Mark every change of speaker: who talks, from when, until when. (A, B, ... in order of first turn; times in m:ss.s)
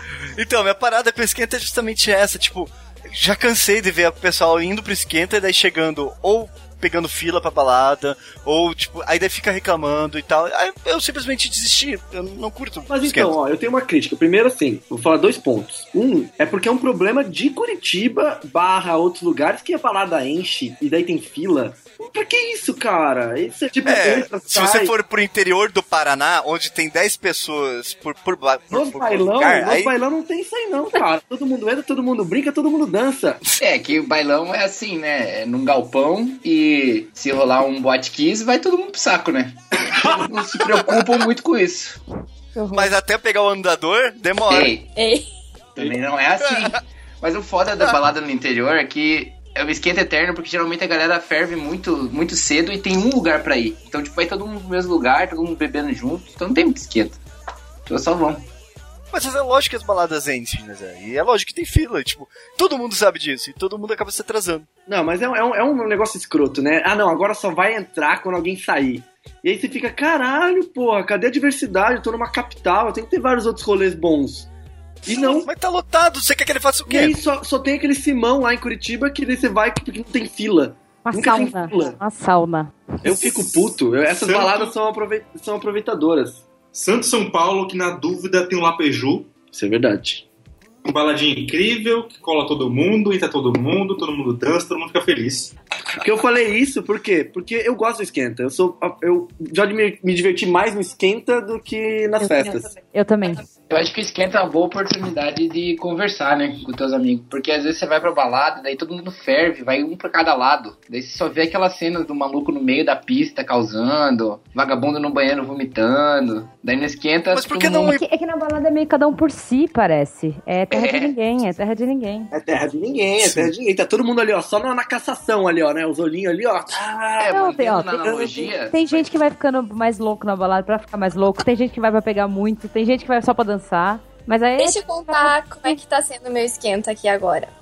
0:00.4-0:13.3 A
0:12.9-0:24.9 B
0:23.8-0:29.9 A
0:28.7-0:33.4 B
0:33.6-0:42.0 C
0:42.5-0:42.9 D
0:42.7-0:44.7 A
0:44.5-0:44.8 C
0:45.0-0:45.3 E
0:45.8-0:57.2 C
0:57.8-0:58.5 C
0:59.1-1:04.7 A
1:04.9-1:14.5 B
1:15.0-1:15.5 B
1:15.1-1:17.2 A
1:16.9-1:22.0 B
1:21.0-1:23.4 D
1:23.0-1:26.4 B
1:24.2-1:24.7 F
1:26.7-1:29.3 F
1:29.5-1:30.2 B
1:30.8-1:35.5 F
1:36.0-1:42.7 B
1:42.2-1:43.4 D
1:43.7-1:58.0 C
1:57.3-1:58.0 A
1:57.9-2:02.3 D
2:00.7-2:01.1 C
2:02.3-2:07.4 B
2:03.2-2:03.5 A
2:07.2-2:09.1 C
2:07.2-2:15.8 D
2:14.6-2:17.5 E